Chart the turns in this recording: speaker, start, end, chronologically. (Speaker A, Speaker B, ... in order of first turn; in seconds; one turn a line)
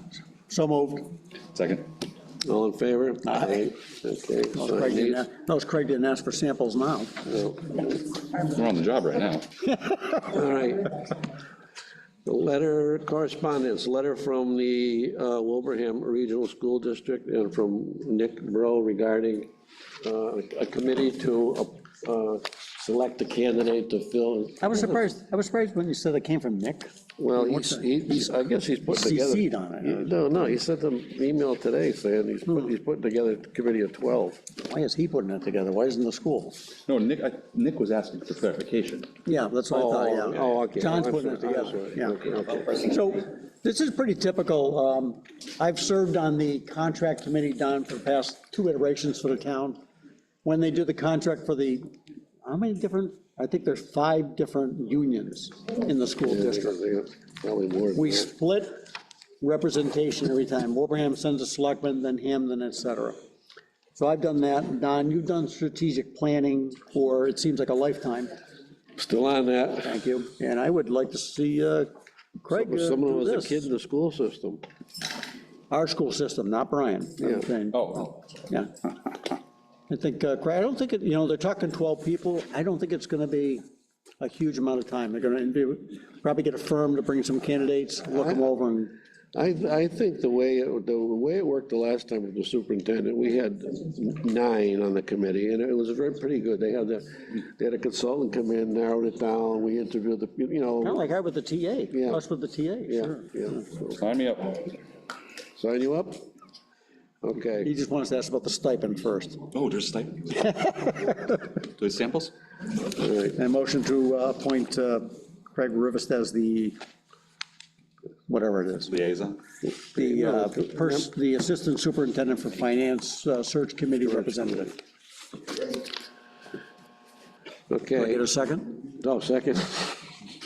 Speaker A: 0.5-1.1
Speaker B: 1.5-1.9
Speaker C: 2.4-5.2
Speaker A: 4.5-7.2
Speaker C: 7.3-7.8
Speaker B: 8.4-9.5
Speaker A: 9.9-10.1
Speaker C: 10.2-11.0
Speaker C: 12.2-19.5
Speaker C: 20.0-25.0
Speaker A: 24.6-28.4
Speaker C: 27.2-34.4
Speaker A: 28.9-30.1
Speaker A: 34.6-36.6
Speaker B: 36.9-39.1
Speaker A: 39.3-49.8
Speaker C: 39.7-42.9
Speaker A: 50.5-51.8
Speaker A: 52.5-56.8
Speaker C: 56.3-58.3
Speaker A: 58.0-58.7
Speaker A: 59.4-63.2
Speaker A: 64.0-68.3
Speaker C: 69.0-70.0
Speaker A: 69.8-73.6
Speaker C: 72.5-74.6
Speaker A: 75.7-78.7
Speaker B: 77.7-78.2
Speaker A: 79.9-83.6
Speaker A: 84.2-88.9
Speaker C: 89.3-101.0
Speaker A: 100.8-103.3
Speaker C: 101.9-102.2
Speaker C: 102.9-104.0
Speaker B: 104.0-104.8
Speaker C: 105.6-106.3
Speaker C: 107.2-107.7
Speaker A: 107.6-109.4
Speaker B: 109.5-111.1
Speaker B: 111.6-112.3
Speaker C: 113.0-113.4
Speaker A: 113.4-116.8
Speaker A: 118.3-118.9
Speaker B: 118.9-119.4
Speaker C: 120.0-121.0
Speaker A: 120.0-124.8
Speaker C: 124.1-124.7
Speaker C: 127.7-128.3
Speaker A: 128.0-128.8
Speaker C: 128.8-130.1